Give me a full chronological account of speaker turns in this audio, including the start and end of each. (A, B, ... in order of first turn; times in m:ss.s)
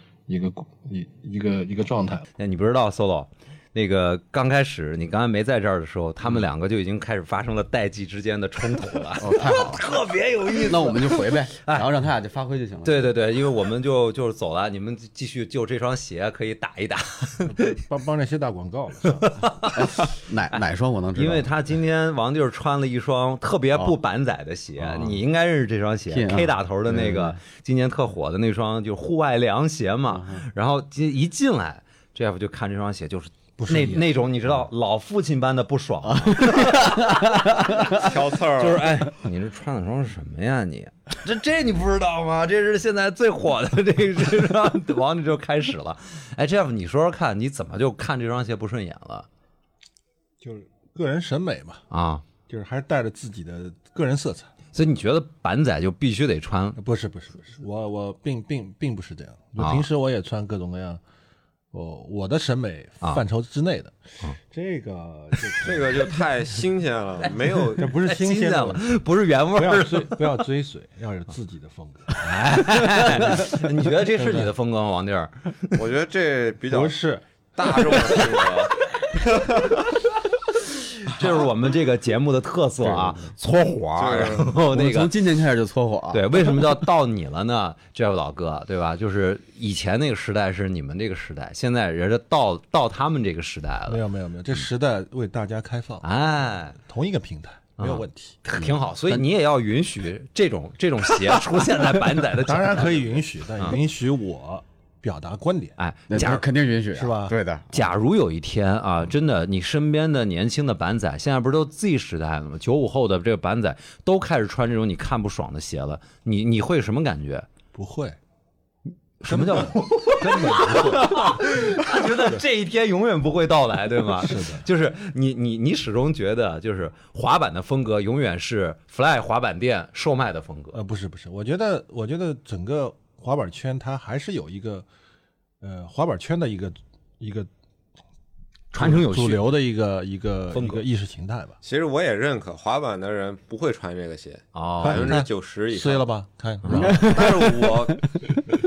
0:00.3-0:02.2 A
0:02.4-0:11.9 B
0:09.2-0:09.8 C
0:10.6-0:13.1 C
0:12.8-0:17.8 B
0:17.4-0:19.4 A
0:19.2-0:19.9 B
0:19.7-0:21.5 C
0:21.2-0:49.3 B
0:24.8-0:25.2 C
0:26.1-0:27.4 C
0:30.1-0:30.4 C
0:33.6-0:34.1 A
0:36.0-0:38.1 C
0:37.9-0:38.9 D
0:50.4-0:51.8 A
0:51.9-0:52.2 B
0:52.5-0:54.5 A
0:54.7-0:56.8 B
0:56.8-1:01.0 A
0:59.6-0:59.8 B
1:01.7-1:04.0 A
1:04.5-1:06.2 A
1:05.6-1:07.9 D
1:07.2-1:10.2 B
1:07.8-1:09.0 A
1:09.5-1:12.2 A
1:12.2-1:15.8 B
1:14.2-1:14.5 A
1:15.7-1:17.0 D
1:16.7-1:18.2 A
1:17.6-1:19.9 D
1:21.0-1:25.2 B
1:22.8-1:23.3 C
1:24.0-1:24.5 D
1:24.4-1:26.8 C
1:26.1-1:34.0 B
1:33.9-1:36.0 A
1:36.0-1:36.8 B
1:36.8-1:38.4 A
1:37.8-1:43.8 B
1:38.6-1:39.2 C
1:42.4-1:45.8 A
1:45.8-1:46.4 B
1:46.1-1:47.9 C
1:46.9-1:47.4 A
1:47.7-1:57.5 B
1:57.7-1:58.2 A
1:59.2-2:10.8 B
1:59.3-2:01.4 A
2:02.1-2:02.4 A
2:04.2-2:04.6 A
2:10.7-2:14.9 A
2:15.6-2:17.5 A
2:18.7-2:19.5 B
2:18.7-2:21.6 A
2:20.5-2:20.8 B
2:21.6-2:26.0 D
2:24.6-2:25.2 B
2:24.8-2:27.4 A
2:26.6-2:26.9 B
2:26.7-2:28.1 D
2:26.7-2:27.8 C